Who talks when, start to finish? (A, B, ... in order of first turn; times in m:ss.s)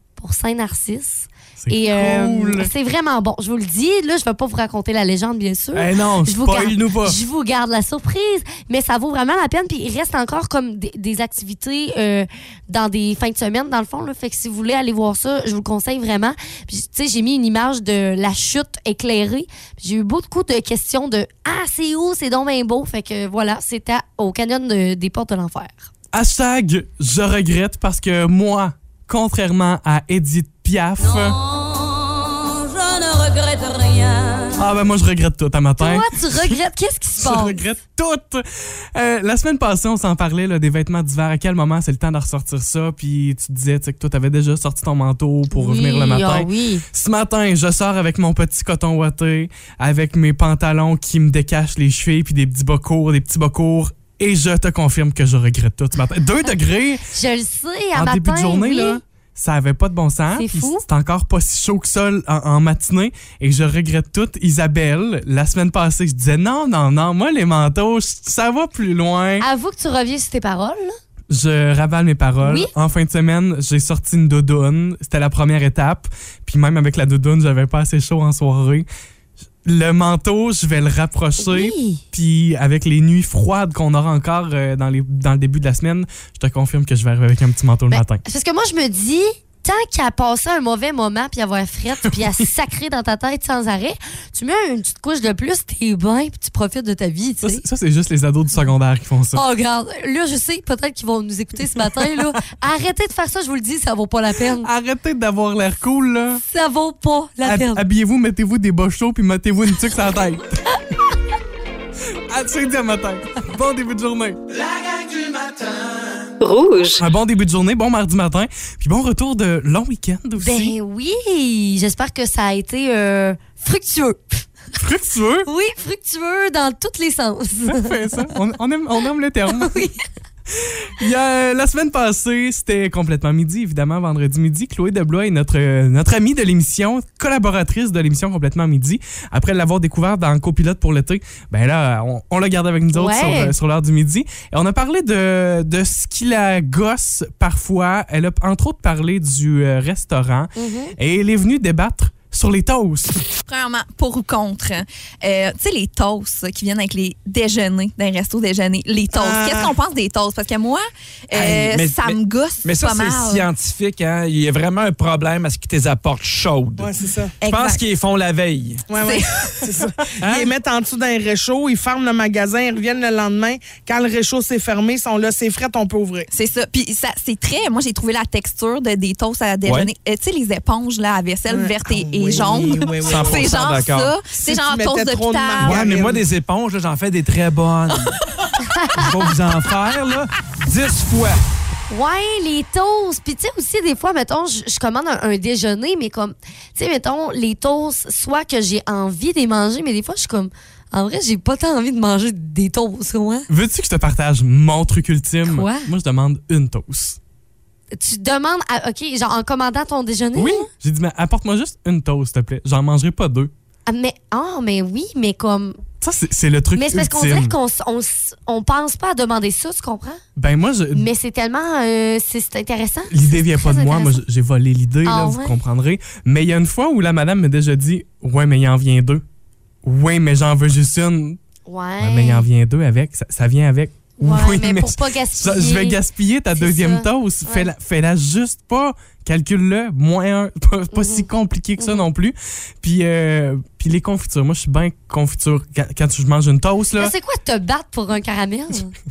0:00.2-0:25.9 A
0:01.6-0:02.7 B
0:05.7-0:07.2 B
0:26.1-0:31.4 B
0:31.4-0:34.5 C
0:34.5-0:36.6 B
0:35.8-0:37.6 A
0:37.2-0:57.1 B
0:45.5-0:46.8 A
0:57.1-0:59.0 A
0:58.0-1:09.5 B
1:00.3-1:00.8 A
1:09.4-1:11.0 A
1:11.3-1:18.9 B
1:12.4-1:12.7 A
1:19.6-1:28.2 B
1:21.4-1:22.0 A
1:27.9-1:37.6 A
1:32.1-1:32.4 B
1:37.4-1:39.4 B
1:39.3-1:44.7 A
1:41.8-1:42.3 B
1:44.5-1:46.4 B
1:46.4-1:47.8 A
1:47.4-1:50.6 B
1:52.1-1:54.4 B
1:54.6-1:56.0 D
1:56.4-1:57.0 C
1:57.0-2:00.8 B
2:00.4-2:04.5 A
2:04.8-2:05.5 B
2:05.4-2:08.3 A
2:07.6-2:09.9 B
2:09.5-2:10.0 A
2:10.5-2:33.2 B
2:22.9-2:23.5 A
2:30.6-2:31.0 A
2:33.4-2:43.5 E
2:39.2-2:39.7 F
2:41.3-2:46.9 D
2:46.8-2:47.4 F
2:47.4-2:47.8 E
2:47.4-2:48.9 D
2:48.9-2:56.3 F
2:49.0-2:49.7 E
2:50.2-2:50.5 D
2:56.3-3:05.9 E
2:59.7-2:59.9 D
3:01.5-3:03.6 F
3:02.3-3:04.1 D
3:04.5-3:06.2 F
3:05.6-3:08.2 D
3:08.6-3:09.0 A
3:08.9-3:11.4 D
3:11.9-3:23.5 A
3:23.5-3:27.2 B
3:25.4-3:25.9 A
3:27.9-3:30.7 A
3:30.4-3:33.5 B
3:33.9-3:35.8 A
3:36.0-3:37.6 B
3:36.8-3:40.2 A
3:40.4-3:41.1 B
3:40.9-3:44.2 A
3:43.1-3:49.2 B
3:45.0-3:45.6 A
3:49.8-3:51.4 B
3:51.7-3:52.5 A
3:52.0-4:07.2 B
3:54.2-3:56.0 A
3:56.6-3:57.7 A
4:00.9-4:01.3 A
4:01.8-4:02.1 A
4:07.0-4:08.9 A